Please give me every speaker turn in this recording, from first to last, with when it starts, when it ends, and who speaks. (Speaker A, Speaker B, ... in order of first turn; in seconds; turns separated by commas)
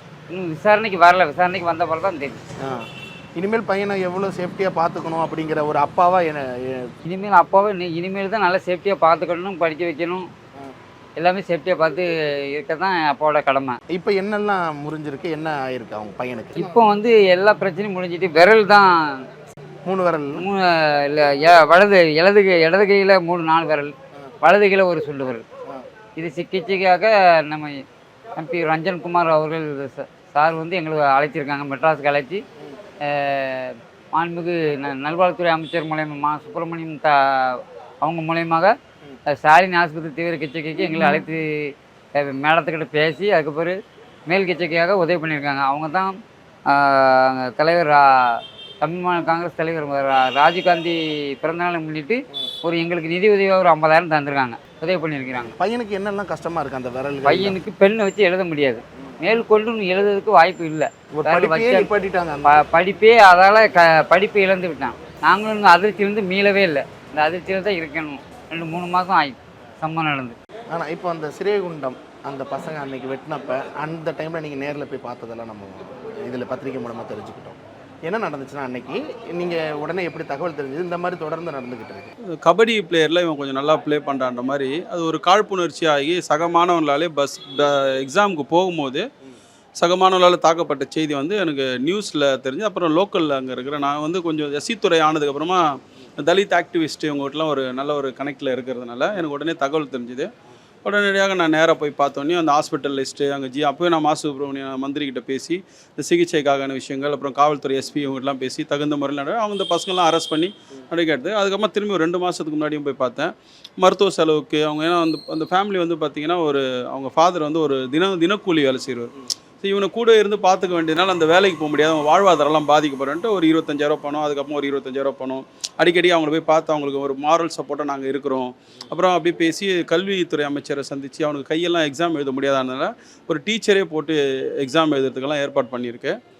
Speaker A: 0.3-2.4, Speaker B: 2.6-6.8, Speaker A: 7.0-10.2, Speaker A: 11.2-13.8, Speaker B: 13.9-16.8, Speaker A: 16.6-18.9, Speaker B: 19.9-20.4, Speaker A: 20.4-25.4, Speaker A: 26.2-27.7, Speaker A: 28.4-32.4, Speaker A: 33.1-38.7, Speaker A: 39.3-41.4, Speaker A: 42.1-46.1, Speaker A: 46.7-48.0, Speaker A: 48.8-55.5, Speaker B: 55.6-57.5, Speaker A: 57.2-61.9, Speaker B: 61.2-62.5, Speaker A: 62.5-70.4, Speaker B: 70.7-82.1, Speaker C: 82.4-89.0, Speaker C: 89.8-95.6, Speaker C: 96.2-100.3, Speaker C: 100.8-119.1, Speaker C: 119.6-136.2